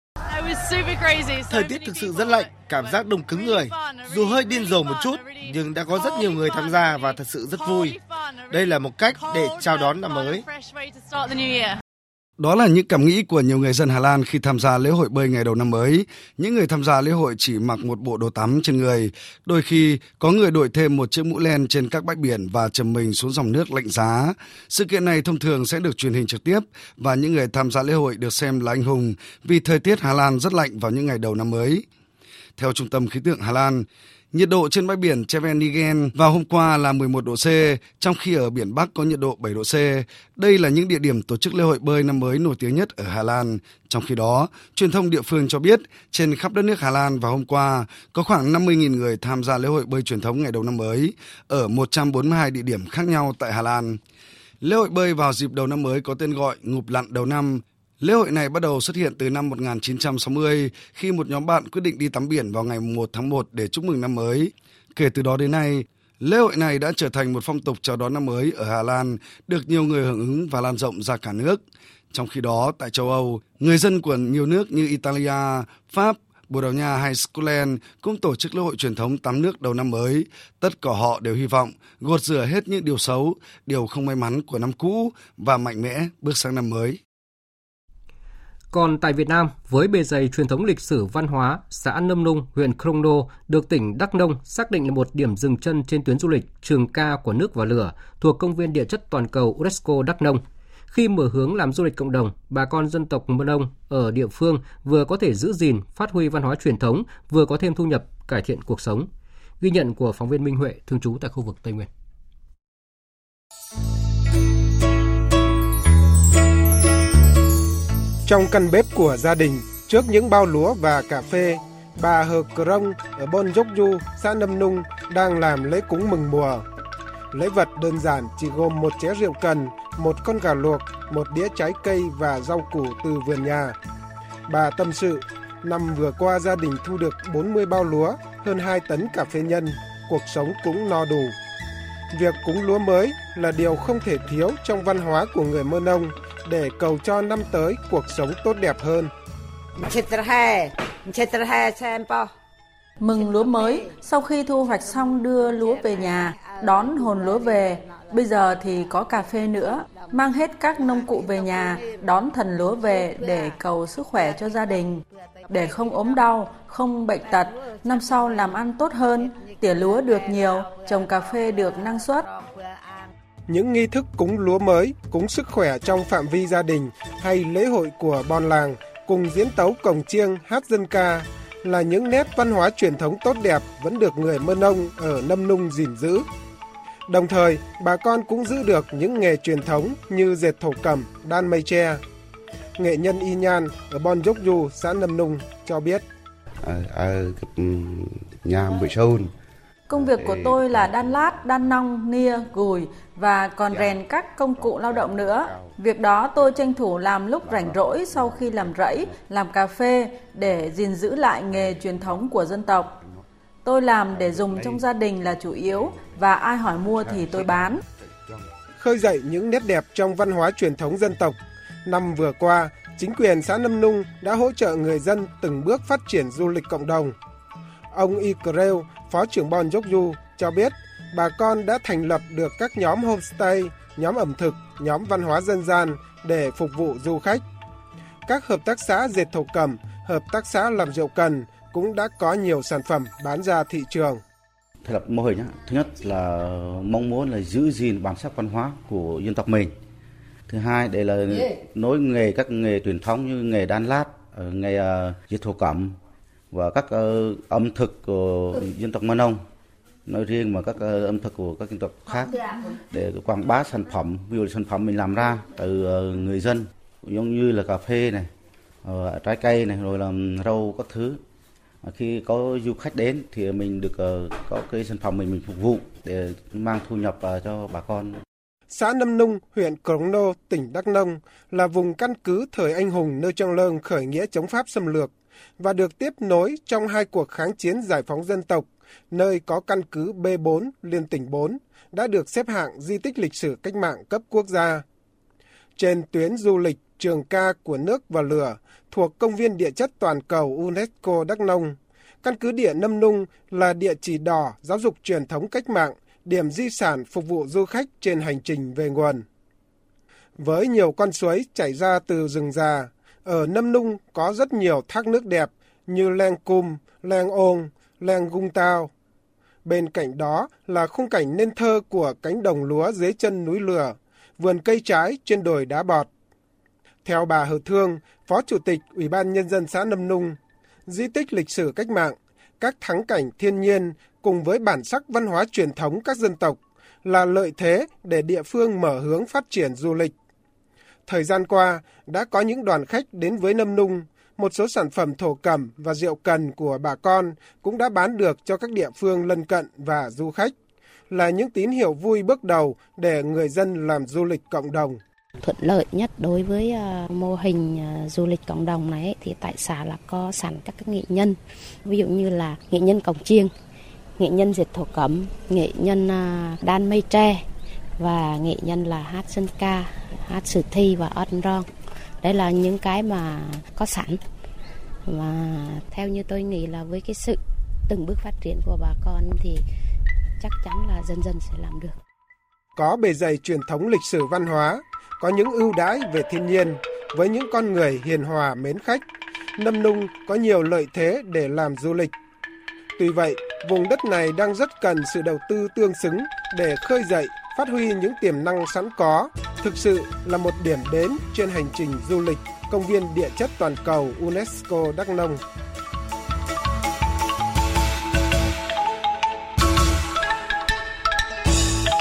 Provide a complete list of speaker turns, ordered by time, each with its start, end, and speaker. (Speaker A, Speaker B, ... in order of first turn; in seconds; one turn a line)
Speaker A: 1.0-8.5
Speaker B: 1.5-10.5
Speaker A: 9.2-10.8
Speaker C: 12.4-31.9
Speaker C: 32.6-54.0
Speaker C: 54.6-71.6
Speaker C: 72.1-87.0
Speaker D: 88.7-109.1
Speaker D: 109.6-111.9
Speaker E: 118.3-126.7
Speaker E: 127.3-133.8
Speaker E: 134.5-141.3
Speaker E: 142.1-149.1
Speaker F: 153.0-172.3
Speaker E: 173.5-186.2
Speaker E: 187.1-192.0
Speaker E: 192.8-196.0
Speaker G: 196.6-199.3
Speaker F: 199.9-212.9
Speaker G: 199.9-201.1
Speaker G: 204.6-205.7
Speaker F: 213.7-217.8
Speaker E: 218.8-227.2
Speaker E: 227.9-237.4
Speaker E: 238.3-244.2
Speaker G: 244.8-249.7
Speaker G: 250.5-256.0
Speaker G: 256.5-259.4
Speaker G: 260.1-262.3
Speaker G: 262.9-268.3
Speaker G: 268.9-271.2
Speaker G: 271.8-278.2
Speaker E: 278.7-294.8
Speaker E: 295.8-309.2
Speaker E: 310.4-318.9
Speaker E: 319.6-326.1
Speaker E: 327.1-340.1
Speaker E: 341.1-350.5
Speaker E: 351.1-355.0
Speaker A: 355.4-363.5
Speaker A: 364.2-367.4
Speaker A: 368.0-371.7
Speaker A: 372.2-374.2
Speaker A: 375.1-379.6
Speaker A: 380.4-381.9
Speaker E: 382.8-389.0
Speaker E: 389.6-392.1
Speaker E: 393.0-405.4